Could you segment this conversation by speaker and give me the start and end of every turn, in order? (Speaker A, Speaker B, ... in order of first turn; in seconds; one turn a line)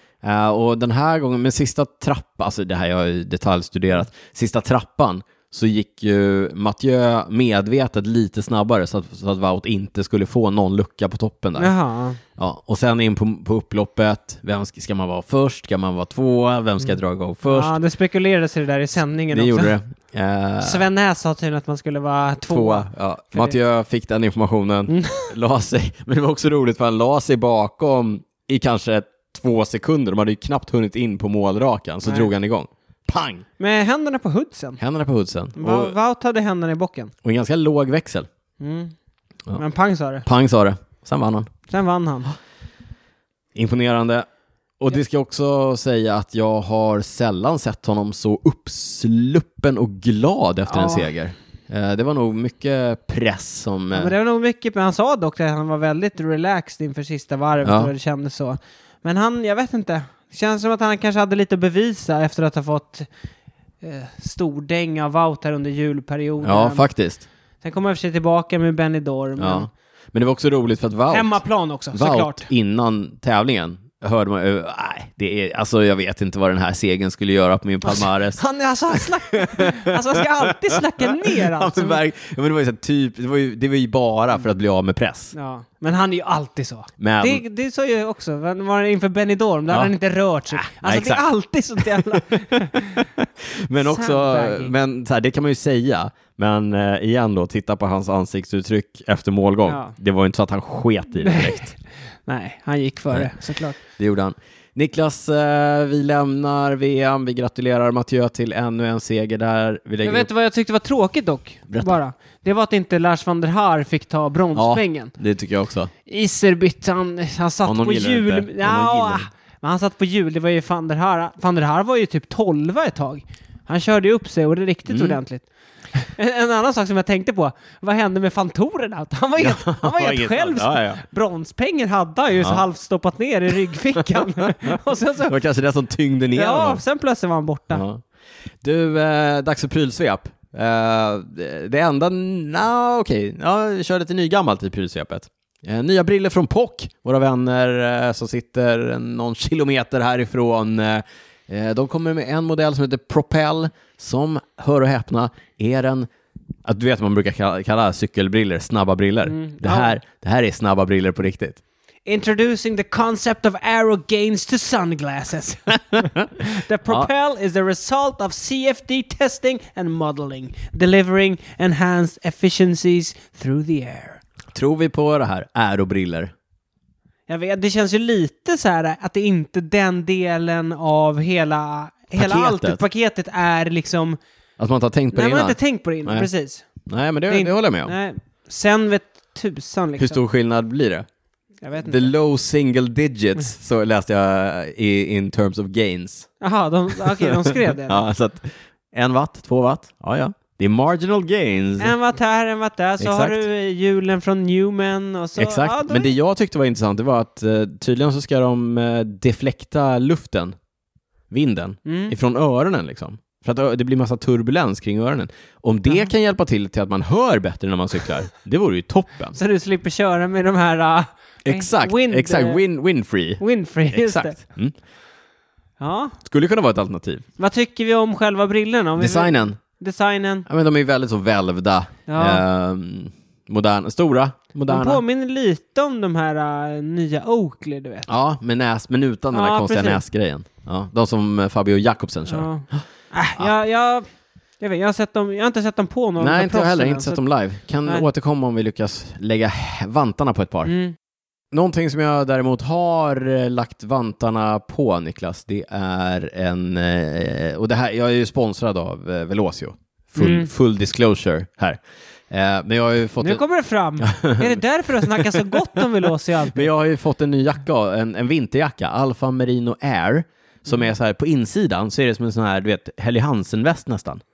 Speaker A: 0.2-11.7
Speaker B: 11.6-12.2
Speaker A: 12.4-17.8
Speaker B: 17.4-19.7
Speaker A: 19.3-20.8
Speaker B: 20.6-23.6
Speaker A: 22.5-33.5
Speaker B: 24.9-25.3
Speaker B: 32.0-32.3
Speaker B: 33.6-34.8
Speaker A: 34.8-36.0
Speaker B: 35.6-37.1
Speaker A: 37.2-38.3
Speaker B: 38.6-38.9
Speaker B: 39.6-40.3
Speaker A: 40.2-41.5
Speaker B: 41.7-42.3
Speaker A: 43.5-44.3
Speaker A: 44.8-54.1
Speaker B: 50.7-51.1
Speaker B: 53.9-63.1
Speaker A: 57.6-57.9
Speaker B: 63.8-66.8
Speaker A: 66.4-67.3
Speaker B: 67.6-69.7
Speaker A: 69.4-71.4
Speaker B: 71.1-72.5
Speaker A: 71.9-85.3
Speaker B: 77.8-82.0
Speaker B: 85.3-93.1
Speaker A: 87.0-87.4
Speaker A: 90.5-91.3
Speaker A: 91.8-101.8
Speaker B: 93.8-94.7
Speaker B: 99.7-100.0
Speaker B: 101.2-101.7
Speaker B: 102.3-103.8
Speaker A: 103.9-110.3
Speaker B: 110.0-115.1
Speaker A: 111.7-112.0
Speaker A: 114.5-115.9
Speaker B: 116.1-135.4
Speaker A: 117.7-119.3
Speaker A: 124.9-125.2
Speaker A: 129.4-131.0
Speaker A: 134.0-136.8
Speaker B: 136.3-137.8
Speaker A: 137.7-138.0
Speaker A: 138.6-156.1
Speaker A: 156.7-161.6
Speaker B: 159.3-160.0
Speaker B: 162.1-174.2
Speaker A: 165.9-166.3
Speaker A: 174.6-176.3
Speaker B: 177.3-184.2
Speaker A: 182.2-182.8
Speaker A: 184.6-186.3
Speaker B: 185.1-186.7
Speaker A: 186.9-187.9
Speaker B: 187.3-190.2
Speaker A: 190.0-191.1
Speaker B: 191.6-192.1
Speaker A: 191.8-196.3
Speaker B: 196.4-198.0
Speaker A: 197.0-201.9
Speaker B: 201.8-206.1
Speaker A: 203.0-203.4
Speaker A: 205.4-210.6
Speaker A: 211.3-219.4
Speaker B: 211.9-212.1
Speaker B: 219.4-222.6
Speaker A: 221.4-224.7
Speaker B: 223.4-224.4
Speaker B: 225.8-226.2
Speaker A: 226.2-227.2
Speaker B: 227.4-230.5
Speaker A: 229.0-229.6
Speaker A: 230.5-235.0
Speaker B: 232.1-232.4
Speaker B: 234.7-238.1
Speaker A: 238.1-242.8
Speaker B: 239.3-240.0
Speaker B: 242.3-244.1
Speaker B: 244.6-247.2
Speaker A: 246.2-250.8
Speaker B: 250.7-250.9
Speaker A: 251.5-263.4
Speaker B: 260.2-260.5
Speaker B: 263.2-266.7
Speaker A: 264.0-265.8
Speaker A: 266.5-274.2